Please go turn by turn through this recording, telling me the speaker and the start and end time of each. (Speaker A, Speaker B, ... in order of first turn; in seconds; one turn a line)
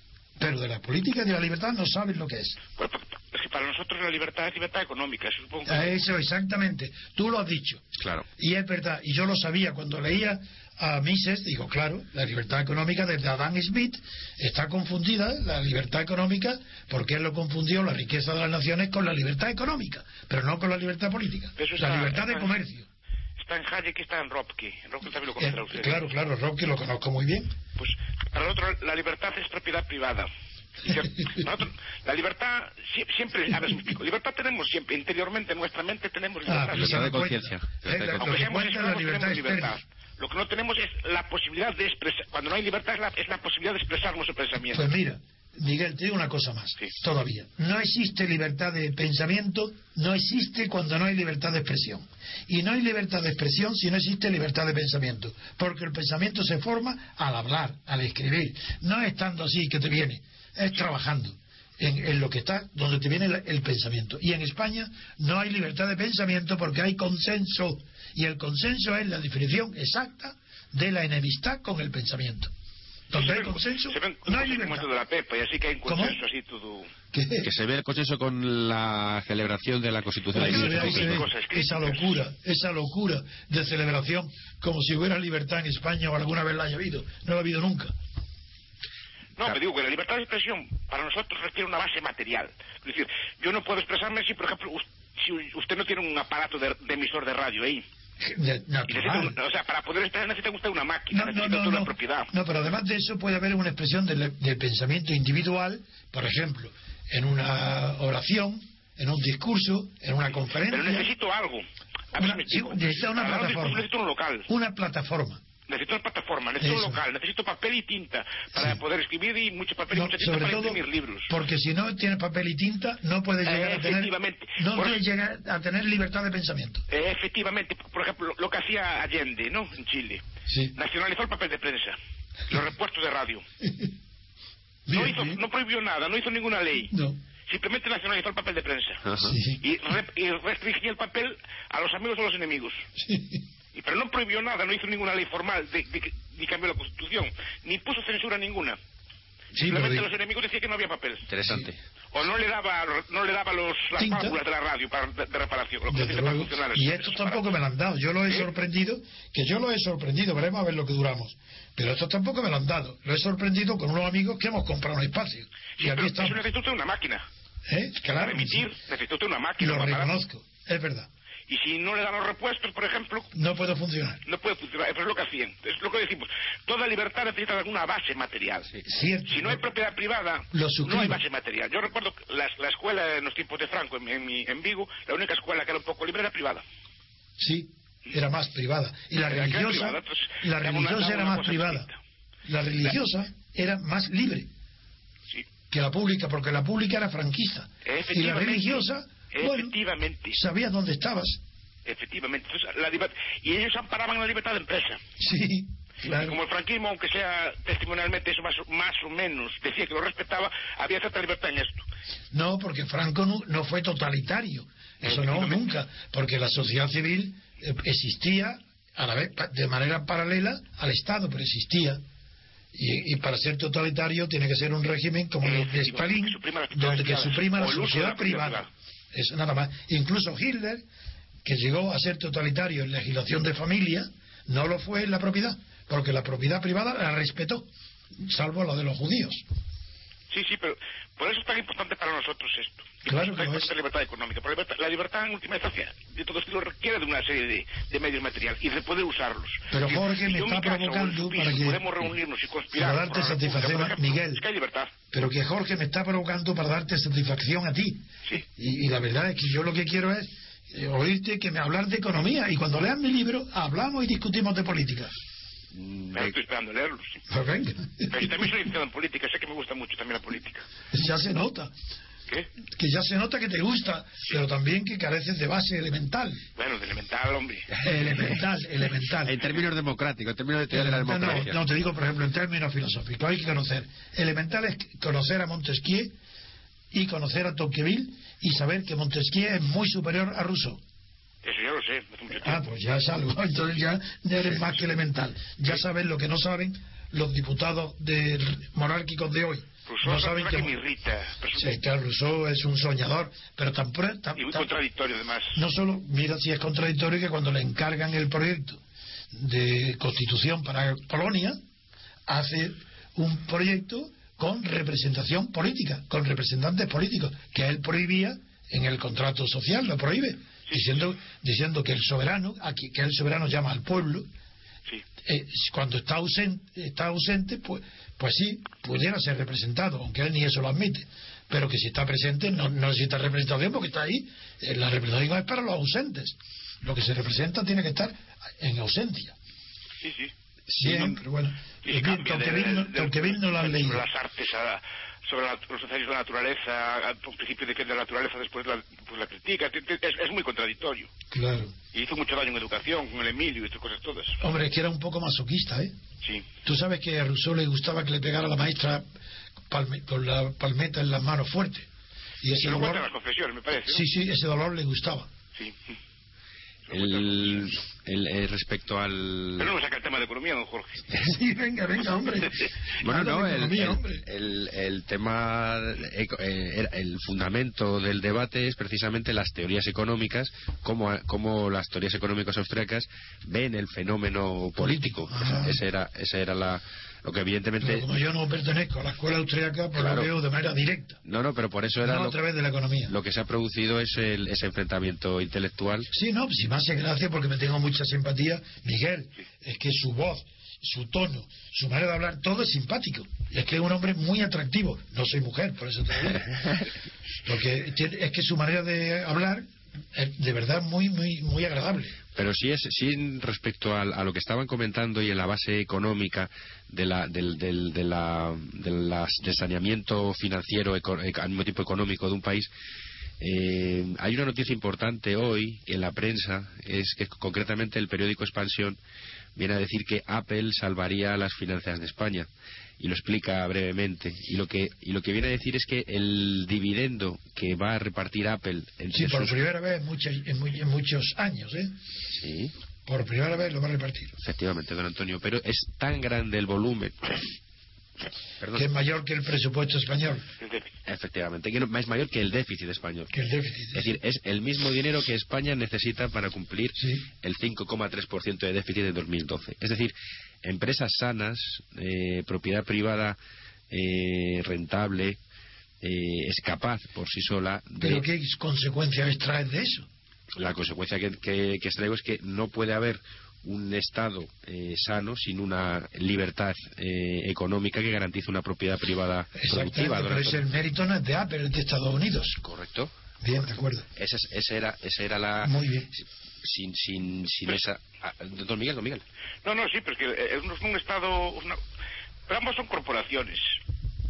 Speaker A: 0.4-2.6
Speaker B: 2.8-6.1
Speaker A: 5.7-7.8
Speaker C: 8.0-8.2
Speaker A: 8.4-22.9
Speaker B: 21.6-22.5
Speaker B: 23.4-26.1
Speaker A: 25.4-27.6
Speaker B: 27.8-30.3
Speaker B: 30.8-37.2
Speaker A: 30.9-31.4
Speaker A: 36.5-39.8
Speaker C: 36.7-38.3
Speaker B: 38.2-44.9
Speaker A: 44.7-72.5
Speaker A: 73.1-74.9
Speaker B: 73.1-76.9
Speaker A: 75.9-76.2
Speaker A: 77.1-77.5
Speaker C: 77.4-81.2
Speaker A: 80.3-87.9
Speaker B: 80.3-82.2
Speaker B: 89.4-97.8
Speaker A: 98.2-99.4
Speaker B: 98.9-102.3
Speaker A: 101.1-111.1
Speaker B: 110.7-114.5
Speaker A: 112.1-113.9
Speaker A: 114.5-115.4
Speaker B: 115.7-121.3
Speaker A: 116.6-117.0
Speaker A: 119.9-126.8
Speaker B: 123.4-125.0
Speaker B: 126.9-130.2
Speaker A: 130.5-130.8
Speaker B: 130.8-132.0
Speaker B: 132.5-133.4
Speaker A: 133.6-133.9
Speaker A: 134.9-135.4
Speaker B: 134.9-136.9
Speaker A: 136.9-137.2
Speaker B: 137.5-142.9
Speaker C: 139.1-139.4
Speaker A: 139.2-139.6
Speaker A: 143.0-143.4
Speaker B: 143.7-148.8
Speaker A: 149.5-150.1
Speaker B: 149.6-151.3
Speaker C: 151.3-151.8
Speaker A: 151.4-151.7
Speaker B: 152.1-157.4
Speaker A: 154.0-154.4
Speaker A: 155.9-166.4
Speaker B: 165.8-167.2
Speaker A: 167.7-168.7
Speaker B: 168.2-170.1
Speaker A: 169.6-171.1
Speaker B: 171.5-173.3
Speaker A: 173.3-174.2
Speaker B: 174.2-186.6
Speaker A: 178.8-179.7
Speaker A: 180.5-181.2
Speaker A: 187.4-191.8
Speaker B: 189.3-191.9
Speaker A: 192.4-194.5
Speaker A: 195.7-199.7
Speaker B: 197.8-200.4
Speaker A: 200.3-201.4
Speaker B: 201.8-205.0
Speaker A: 205.2-206.4
Speaker B: 206.1-211.8
Speaker A: 212.3-222.0
Speaker B: 215.0-215.6
Speaker A: 222.7-230.8
Speaker B: 225.4-228.7
Speaker A: 231.4-237.7
Speaker A: 238.2-239.4
Speaker B: 240.3-254.9
Speaker A: 243.1-243.7
Speaker A: 249.7-252.1
Speaker A: 252.7-254.4
Speaker A: 255.1-265.1
Speaker C: 265.7-266.4
Speaker B: 266.1-267.2
Speaker A: 267.3-268.3
Speaker B: 268.1-270.7
Speaker A: 270.9-271.7
Speaker A: 272.8-276.4
Speaker B: 276.6-277.7
Speaker C: 277.7-278.4
Speaker A: 277.8-279.4
Speaker C: 279.2-281.6
Speaker A: 280.7-286.1
Speaker A: 286.9-290.8
Speaker B: 291.4-292.6
Speaker A: 292.3-300.7
Speaker B: 299.9-301.8
Speaker A: 301.5-304.7
Speaker B: 304.4-305.6
Speaker A: 305.5-308.8
Speaker A: 309.3-311.6
Speaker A: 312.3-324.3
Speaker B: 320.7-320.9
Speaker A: 325.2-339.4
Speaker B: 340.0-340.3
Speaker A: 340.8-344.1
Speaker B: 341.8-351.1
Speaker A: 351.3-351.8
Speaker B: 351.9-354.4
Speaker A: 354.4-355.9
Speaker B: 356.2-356.5
Speaker A: 356.6-359.0
Speaker A: 359.7-361.9
Speaker A: 362.4-363.0
Speaker B: 362.5-364.1
Speaker A: 363.9-365.3
Speaker B: 366.9-367.8
Speaker C: 366.9-369.7
Speaker B: 369.6-371.1
Speaker A: 371.1-374.2
Speaker B: 372.4-372.7
Speaker C: 373.0-388.1
Speaker A: 385.3-385.8
Speaker A: 387.8-391.2
Speaker C: 390.0-390.3
Speaker C: 391.2-392.4
Speaker A: 392.0-393.1
Speaker C: 393.1-396.1
Speaker A: 396.1-406.7
Speaker A: 407.4-412.2
Speaker C: 412.4-422.7
Speaker C: 423.4-429.0
Speaker C: 429.5-432.5
Speaker C: 433.0-439.6
Speaker A: 439.1-441.9
Speaker C: 442.4-442.7
Speaker A: 443.1-444.4
Speaker C: 444.4-447.5
Speaker C: 448.6-448.9
Speaker A: 448.7-450.5
Speaker B: 450.6-450.9
Speaker C: 451.1-453.3
Speaker A: 453.3-454.1
Speaker C: 453.9-463.4
Speaker A: 457.0-457.2
Speaker C: 463.9-465.4
Speaker C: 466.0-468.2
Speaker A: 468.0-470.1
Speaker C: 470.6-480.6
Speaker A: 479.6-482.6
Speaker C: 482.6-483.1
Speaker A: 483.4-484.1
Speaker C: 484.1-489.2
Speaker A: 485.6-486.1
Speaker B: 489.6-491.8
Speaker B: 492.5-493.7